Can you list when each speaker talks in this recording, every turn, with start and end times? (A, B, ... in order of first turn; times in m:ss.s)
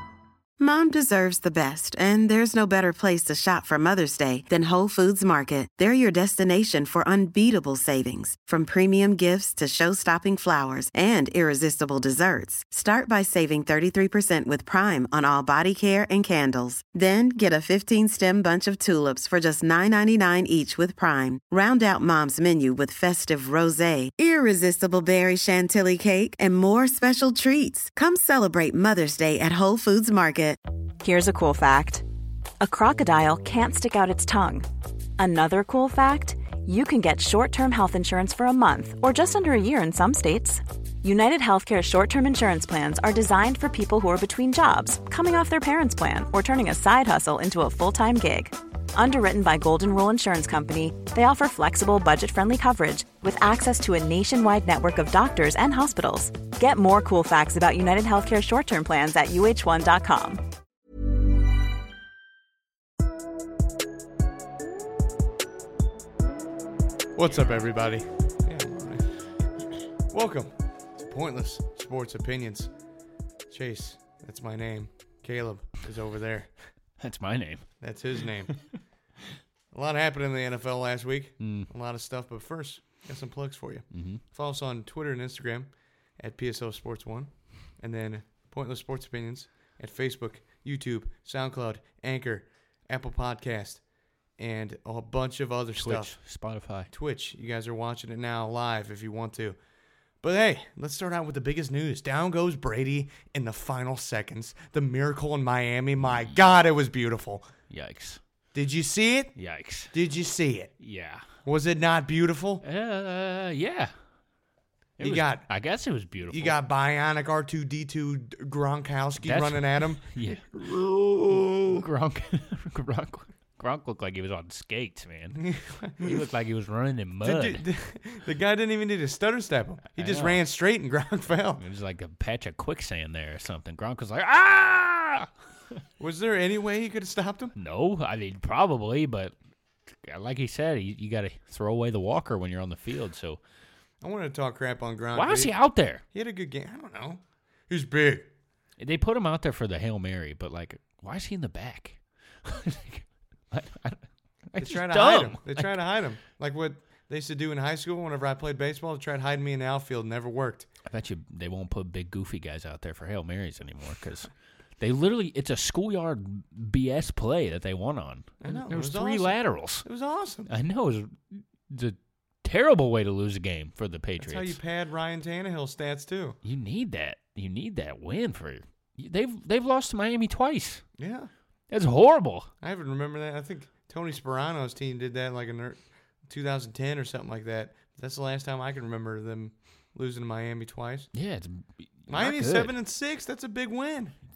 0:00.6-0:30.6 A
0:31.0-0:32.0 B
0:32.6-0:34.7 B
0:35.2-1:00.4 B
1:07.2-1:09.1 C
1:10.1-1:12.7 C
1:13.5-1:16.5 C
1:17.0-1:17.8 D
1:17.8-1:18.5 C
1:19.7-1:33.8 C
1:21.4-1:21.7 D
1:23.9-1:24.2 D
1:34.4-1:36.2 C
1:35.8-1:36.9 D
1:36.9-1:39.6 C
1:40.2-1:47.5 C
1:46.1-1:46.3 D
1:47.7-1:48.2 D
1:48.6-1:49.3 C
1:49.4-1:49.9 D
1:49.9-1:50.7 C
1:50.8-1:51.2 D
1:51.4-1:52.6 C
1:52.6-1:53.9 D
1:55.0-1:56.6 D
1:55.0-1:55.5 C
1:56.3-2:01.8 C
1:59.2-2:00.4 D
2:01.7-2:05.5 D
2:05.4-2:06.2 C
2:06.0-2:07.6 D
2:07.2-2:11.6 C
2:10.0-2:10.4 D
2:11.6-2:15.3 D
2:16.0-2:17.5 C
2:17.6-2:19.3 D
2:19.9-2:23.4 D
2:24.0-2:25.5 C
2:25.2-2:26.0 D
2:26.1-2:28.3 C
2:28.8-2:35.8 D
2:34.6-2:40.7 C
2:40.9-2:49.9 D
2:48.4-2:50.5 C
2:50.5-2:54.6 D
2:54.2-2:56.4 C
2:56.4-3:00.9 D
3:01.0-3:01.3 C
3:01.7-3:02.5 D
3:02.6-3:11.1 C
3:11.1-3:12.8 D
3:12.1-3:14.2 C